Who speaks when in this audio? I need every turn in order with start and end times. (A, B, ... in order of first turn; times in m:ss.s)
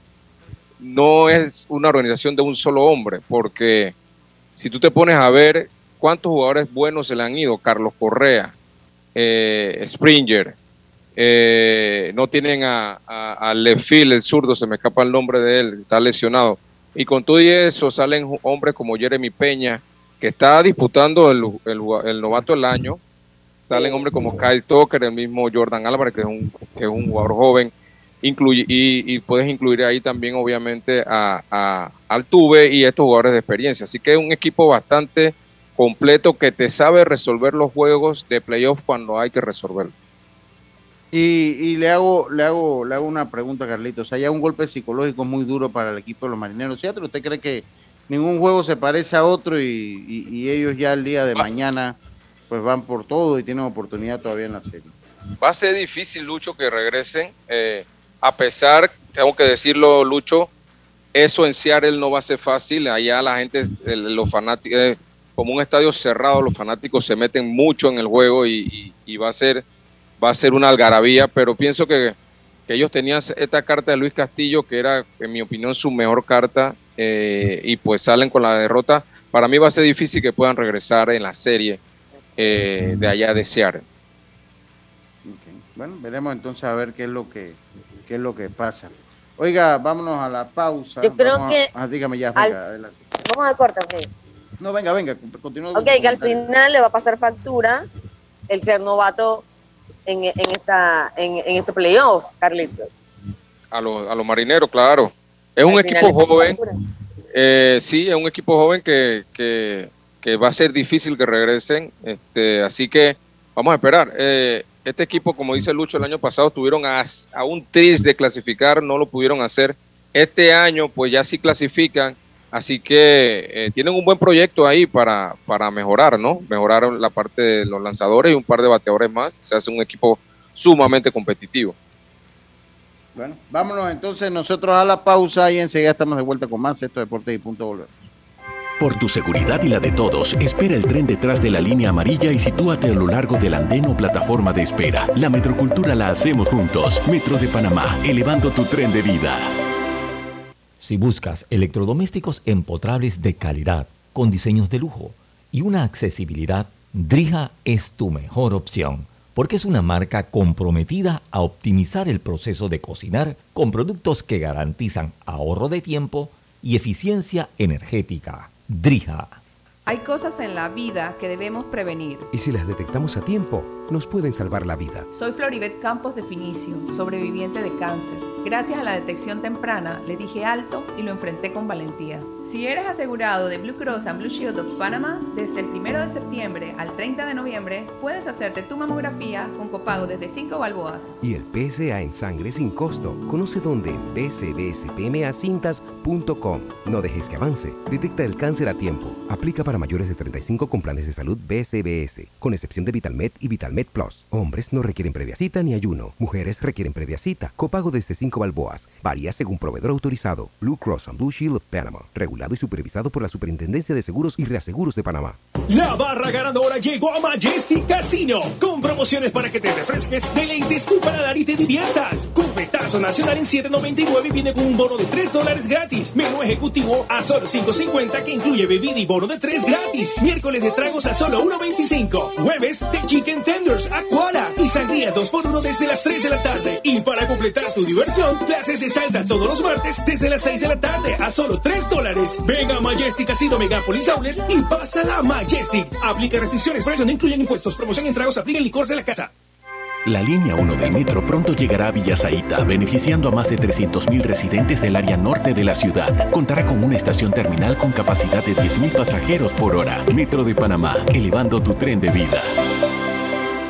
0:00.8-0:04.0 A
0:04.6-0:08.5 A
0:09.2-0:10.6 A
0:11.2-0:23.0 A
0:23.7-0:27.7 A
0:23.7-0:24.0 B
0:28.2-0:39.9 A
0:41.1-0:52.0 C
0:52.5-0:55.0 C
0:55.4-1:00.5 A
1:01.2-1:09.6 A
1:10.2-1:12.2 A
1:12.7-1:21.8 A
1:22.4-1:23.8 A
1:25.2-1:33.0 C
1:31.0-1:31.7 B
1:33.2-1:34.1 B
1:34.6-1:36.5 C
1:35.8-1:37.8 B
1:38.5-1:39.4 B
1:40.1-1:42.9 B
1:43.7-1:46.6 A
1:45.7-1:46.7 B
1:47.3-2:11.8 A
2:13.2-2:18.0 C
2:18.8-2:29.5 D
2:30.8-2:49.4 E
2:49.9-2:52.3 F
2:52.3-2:55.1 G
2:55.1-3:11.1 F
3:11.2-3:35.4 G
3:35.7-4:09.3 H
4:10.0-4:22.5 D